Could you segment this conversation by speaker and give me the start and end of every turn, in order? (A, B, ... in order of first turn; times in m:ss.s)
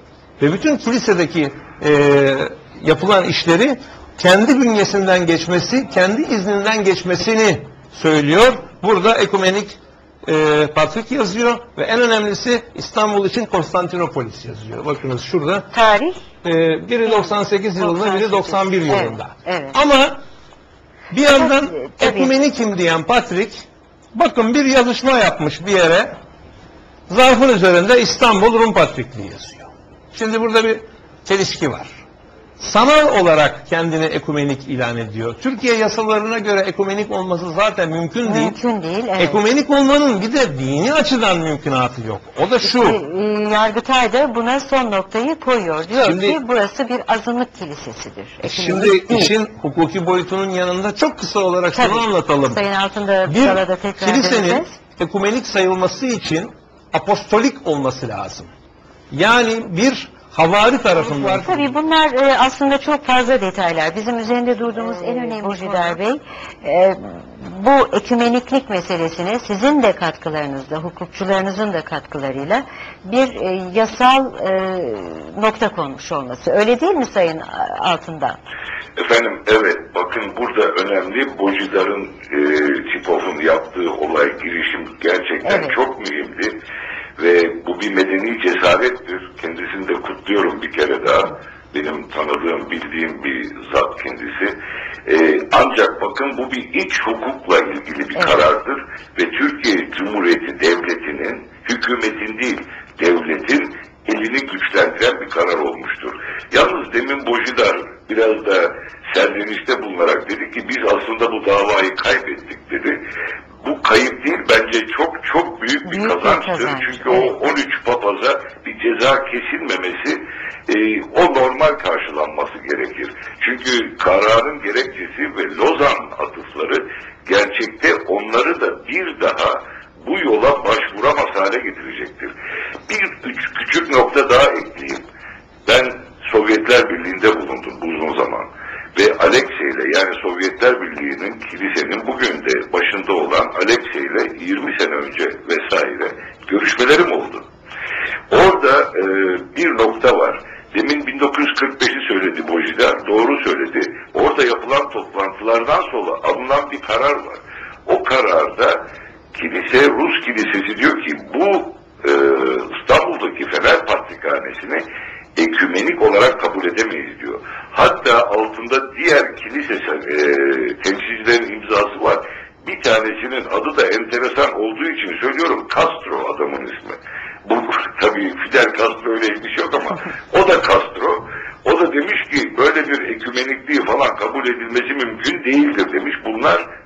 0:00.4-0:15.7 A
0:15.7-0:16.2 B
0:16.4-0:20.2 A
0:17.1-0:19.8 B
0:21.1-0:26.2 A
0:21.2-0:22.3 B
0:27.1-0:31.9 A
0:32.6-0:38.6 A
0:38.2-0:39.4 B
0:39.2-0:43.0 A
0:42.6-0:49.3 B
0:45.9-0:46.4 A
0:48.4-0:52.6 A
0:51.7-0:54.8 B
0:53.3-0:58.5 A
0:59.1-1:01.6 A
1:00.9-1:18.4 B
1:19.0-1:26.6 C
1:25.4-1:25.8 B
1:27.2-1:53.0 C
1:38.2-1:38.4 B
1:53.6-2:12.3 C
1:55.8-1:57.3 B
2:12.9-2:15.0 C
2:15.7-2:27.5 C
2:28.3-2:44.8 C
2:45.4-3:06.7 C